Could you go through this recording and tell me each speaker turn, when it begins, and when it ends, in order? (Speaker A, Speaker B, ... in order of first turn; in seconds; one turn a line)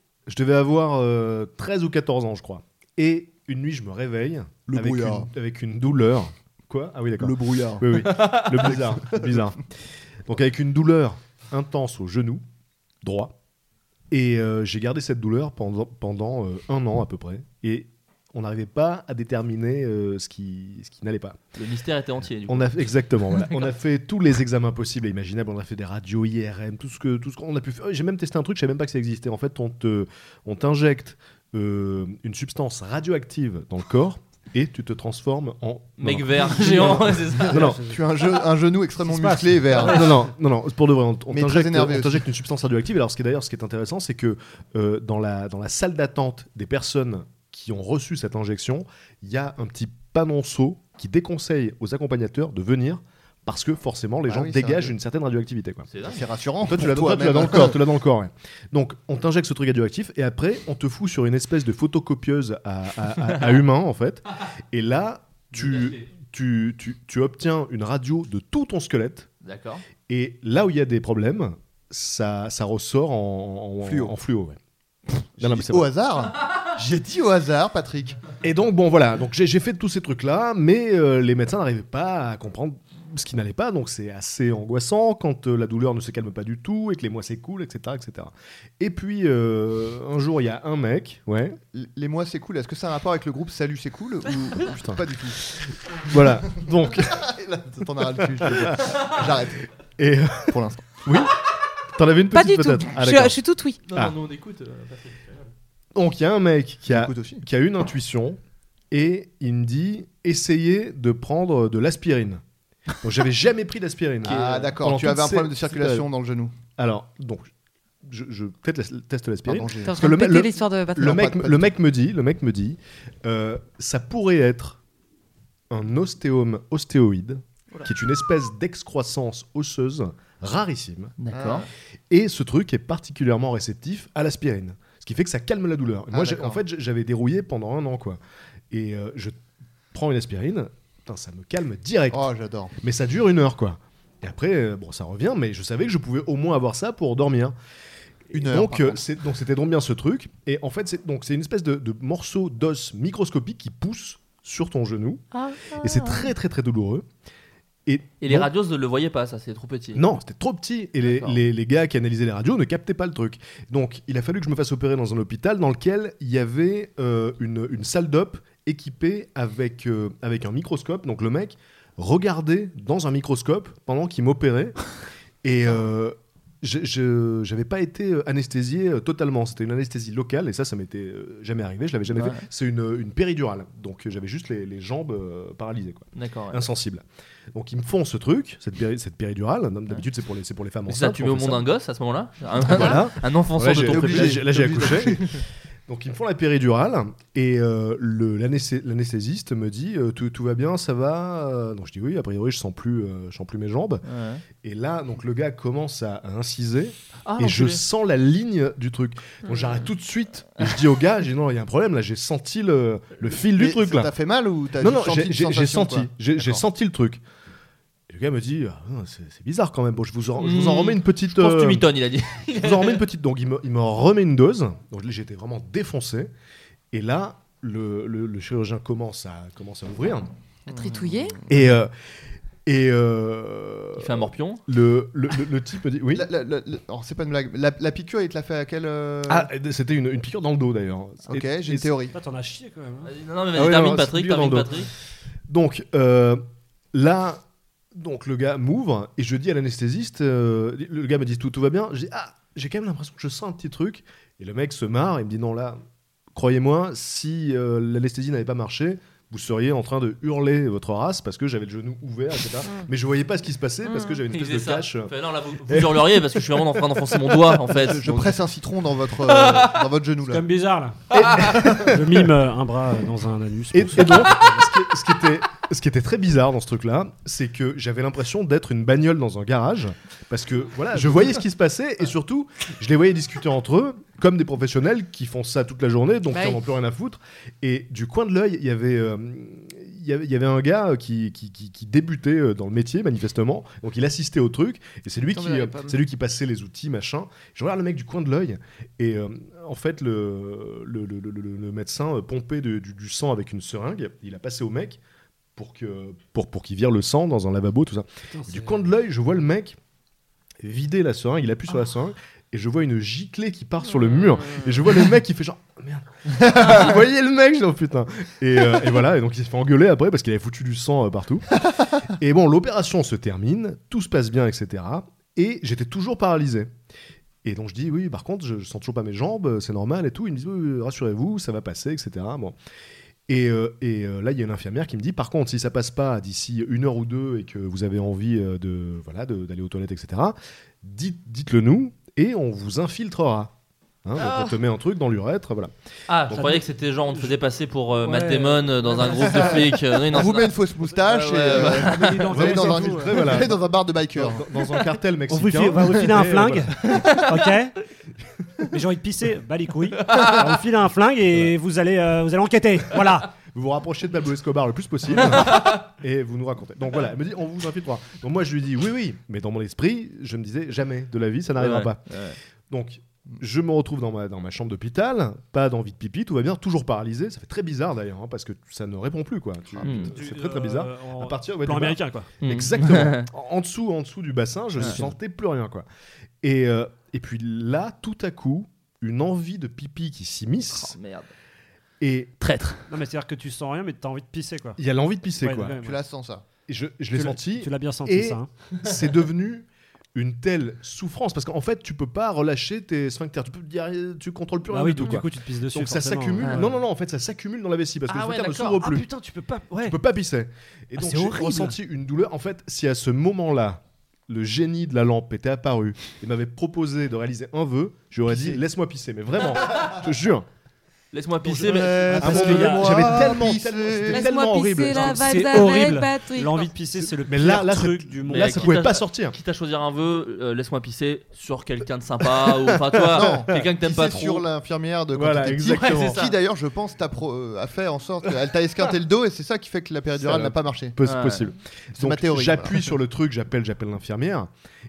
Speaker A: 0.3-9.7
Speaker B: 4.7-5.3
Speaker B: 7.2-9.5
Speaker C: 8.0-8.6
Speaker A: 10.2-12.4
Speaker A: 13.0-13.3
Speaker A: 14.1-21.4
Speaker C: 21.5-22.8
Speaker A: 22.5-37.8
Speaker C: 36.0-37.8
Speaker B: 37.4-40.1
Speaker D: 37.5-38.2
Speaker D: 39.0-40.1
Speaker A: 39.7-55.9
Speaker B: 41.3-42.2
Speaker B: 54.3-54.9
Speaker C: 55.9-56.2
Speaker B: 56.0-57.8
Speaker A: 56.6-69.3
Speaker C: 65.5-66.1
Speaker C: 69.4-69.8
Speaker A: 70.1-74.6
Speaker B: 73.8-74.1
Speaker A: 75.4-75.9
Speaker B: 75.4-78.3
Speaker A: 78.4-91.6
Speaker B: 91.7-95.4
Speaker A: 94.7-97.3
Speaker B: 97.1-99.7
Speaker A: 98.1-99.2
Speaker A: 100.0-103.4
Speaker B: 100.5-100.9
Speaker E: 102.3-103.8
Speaker C: 103.9-105.5
Speaker A: 105.9-108.4
Speaker B: 106.9-107.4
Speaker A: 108.9-112.4
Speaker A: 113.0-116.1
Speaker B: 114.2-116.5
Speaker A: 116.8-117.5
Speaker A: 118.0-124.8
Speaker B: 119.5-120.0
Speaker E: 119.8-121.3
Speaker B: 121.0-121.7
Speaker A: 125.7-131.2
Speaker C: 131.2-131.7
Speaker B: 131.3-131.7
Speaker A: 132.1-138.2
Speaker B: 136.1-136.6
Speaker A: 138.7-139.4
Speaker A: 139.9-142.3
Speaker B: 142.1-142.7
Speaker A: 142.8-147.6
Speaker B: 148.3-149.0
Speaker A: 148.3-157.1
Speaker E: 155.3-156.3
Speaker A: 157.8-158.5
Speaker C: 158.2-160.0
Speaker A: 159.9-174.8
Speaker C: 161.1-161.3
Speaker A: 175.4-191.7
Speaker C: 182.1-182.4
Speaker C: 186.1-186.7
Speaker C: 190.9-195.3
Speaker B: 192.6-193.0
Speaker A: 192.6-204.0
Speaker B: 193.8-195.3
Speaker C: 204.0-204.4
Speaker A: 204.6-214.1
Speaker C: 207.2-207.8
Speaker B: 213.4-216.6
Speaker A: 214.8-217.2
Speaker A: 218.1-221.9
Speaker C: 220.4-223.0
Speaker A: 222.5-226.3
Speaker A: 226.9-230.3
Speaker E: 230.7-231.4
Speaker B: 230.7-231.6
Speaker A: 231.5-231.9
Speaker A: 232.7-236.3
Speaker C: 234.0-234.6
Speaker B: 236.1-239.5
Speaker A: 239.3-241.9
Speaker B: 241.3-242.1
Speaker D: 242.1-243.1
Speaker C: 243.0-244.9
Speaker A: 243.5-244.8
Speaker A: 245.5-246.4
Speaker A: 246.9-247.4
Speaker A: 247.9-255.8
Speaker A: 256.3-265.1
Speaker E: 263.9-264.2
Speaker C: 264.3-268.0
Speaker A: 265.6-268.4
Speaker B: 267.8-270.5
Speaker C: 269.2-269.8
Speaker D: 270.3-274.7
Speaker A: 271.1-272.3
Speaker C: 271.1-271.7
Speaker A: 273.7-305.0
Speaker E: 286.3-286.7
Speaker E: 295.2-296.0
Speaker A: 305.6-309.8
Speaker D: 308.3-308.9
Speaker A: 310.6-321.5
Speaker A: 322.1-326.7
Speaker A: 327.4-332.6
Speaker A: 333.3-343.5
Speaker A: 344.0-345.7
Speaker C: 346.1-352.2
Speaker A: 346.2-346.7
Speaker D: 348.0-349.6
Speaker B: 349.3-354.4
Speaker D: 351.5-353.4
Speaker A: 352.3-353.6
Speaker A: 354.1-356.7
Speaker D: 355.3-357.8
Speaker C: 356.9-357.3
Speaker D: 358.7-363.3
Speaker C: 360.0-360.5
Speaker A: 363.4-372.0
Speaker C: 365.2-365.8
Speaker C: 371.6-372.4
Speaker A: 372.7-385.8
Speaker C: 379.8-380.1
Speaker D: 379.9-382.3
Speaker C: 382.4-383.3
Speaker D: 384.8-385.1
Speaker A: 386.4-390.9
Speaker C: 390.7-391.3
Speaker A: 392.0-392.3
Speaker C: 392.4-392.9
Speaker D: 392.9-394.8
Speaker A: 394.8-395.8
Speaker D: 395.4-396.0
Speaker B: 395.8-396.4
Speaker A: 396.7-409.1
Speaker D: 397.1-398.5
Speaker D: 404.7-406.8
Speaker C: 408.1-408.8
Speaker D: 408.6-410.0
Speaker A: 409.8-420.5
Speaker D: 410.9-411.7
Speaker C: 421.1-422.8
Speaker A: 421.4-425.5
Speaker D: 421.7-423.3
Speaker B: 422.2-424.3
Speaker E: 424.1-426.7
Speaker D: 424.9-428.8
Speaker A: 427.1-429.4
Speaker C: 428.3-434.4
Speaker A: 432.3-434.4
Speaker B: 433.1-441.0
Speaker A: 435.1-436.3
Speaker C: 435.7-436.3
Speaker A: 440.1-444.5
Speaker C: 441.0-441.5
Speaker B: 441.9-442.9